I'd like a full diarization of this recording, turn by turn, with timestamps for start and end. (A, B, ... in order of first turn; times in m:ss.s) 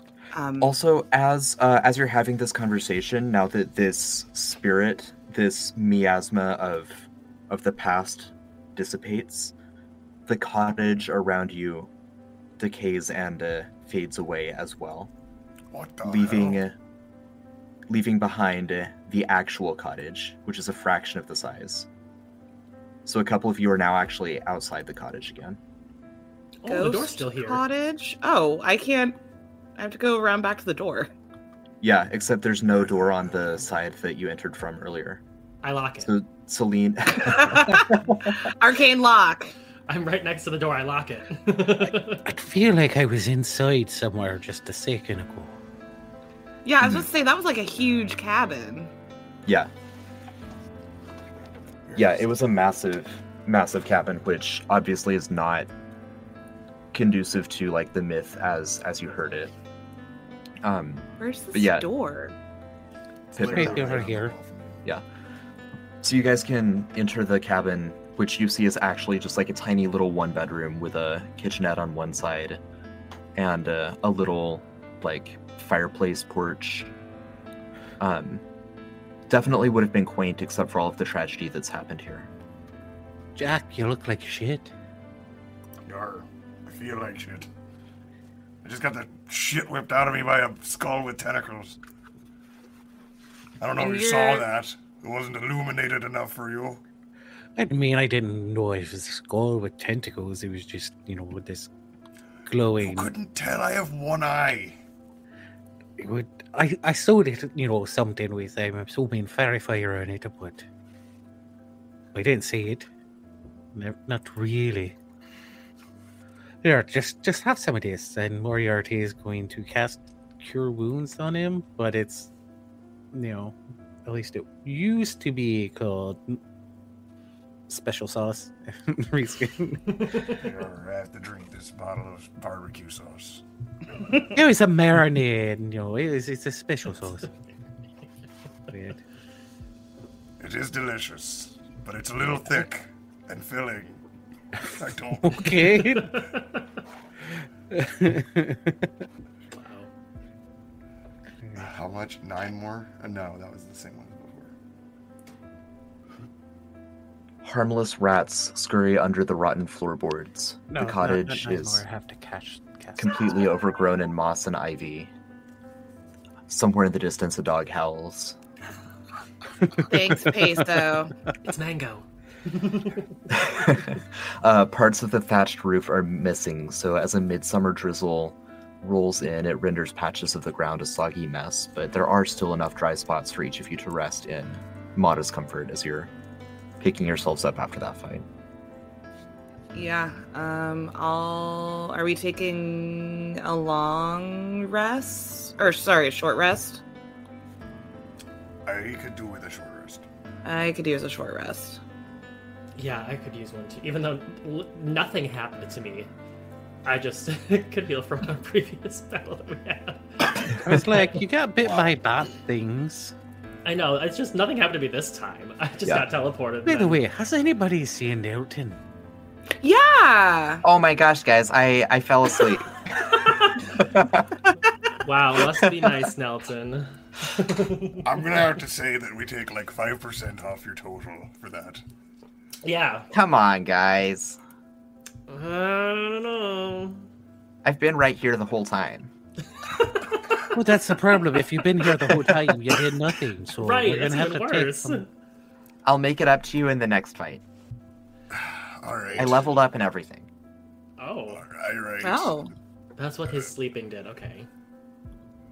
0:00.3-0:00.7 A
0:00.6-0:09.5 B
0:10.3-0:11.9 B
0:12.6-0:15.1 B
0:15.7-0:16.6 C
0:16.0-0:16.8 B
0:17.9-0:21.9 B
0:23.0-0:25.6 B
0:26.6-0:27.6 D
0:26.6-0:29.2 A
0:29.8-0:31.1 A
0:31.8-0:35.2 B
0:35.6-0:36.1 D
0:36.0-0:38.3 B
0:37.2-0:39.5 A
0:39.9-0:42.2 D
0:42.2-0:45.6 E
0:46.6-0:48.9 A
0:46.8-0:47.1 B
0:49.4-0:49.7 B
0:51.9-0:55.7 B
0:56.9-0:59.5 B
1:00.6-1:01.9 B
1:01.2-1:02.3 A
1:03.3-1:04.8 F
1:03.4-1:04.0 B
1:03.5-1:04.3 E
1:06.0-1:12.6 B
1:13.3-1:16.9 B
1:18.0-1:18.4 B
1:19.3-1:22.3 B
1:23.4-1:24.7 E
1:25.8-1:27.5 C
1:28.6-1:31.8 C
1:33.6-1:36.8 C
1:33.8-1:34.5 A
1:37.6-1:41.7 E
1:42.4-1:43.1 E
1:42.8-1:44.8 C
1:46.0-1:50.6 E
1:52.1-1:52.9 E
1:53.7-1:55.0 E
1:56.6-2:02.3 E
2:03.1-2:06.4 E
2:07.7-2:10.4 E
2:10.0-2:10.3 D
2:10.4-2:13.4 C
2:14.2-2:17.3 E
2:18.7-2:19.0 E
2:20.4-2:24.0 C
2:24.6-2:26.3 E
2:24.7-2:25.8 C
2:25.8-2:26.6 D
2:27.3-2:29.0 E
2:29.5-2:29.9 D
2:31.6-2:34.5 F
2:37.4-2:41.8 B
2:40.7-2:43.1 E
2:43.0-2:45.1 B
2:46.5-2:48.4 B
2:49.7-2:50.6 E
2:49.9-2:51.1 A
2:51.4-2:53.2 D
2:53.3-3:06.1 B
3:06.8-3:08.2 B
3:09.7-3:16.8 A
3:18.6-3:20.0 C
3:20.4-3:21.8 A
3:22.7-3:26.1 D
3:26.8-3:30.4 D
3:30.6-3:33.1 E
3:31.6-3:31.9 F
3:33.6-3:37.0 D
3:36.6-3:38.8 E
3:39.6-3:40.6 A
3:40.6-3:42.8 B
3:43.9-3:44.5 B
3:45.0-3:48.1 D
3:48.0-3:51.8 C
3:52.6-3:53.1 D
3:53.1-3:54.4 B
3:55.3-3:57.1 D
3:57.6-3:59.1 B
3:59.8-4:00.2 D
4:00.5-4:05.0 E
4:01.8-4:02.8 D
4:03.6-4:05.1 D
4:05.8-4:07.4 B
4:08.3-4:09.6 C
4:09.2-4:10.3 B
4:11.0-4:11.4 D
4:11.3-4:12.4 C
4:12.0-4:12.5 A
4:13.0-4:14.5 D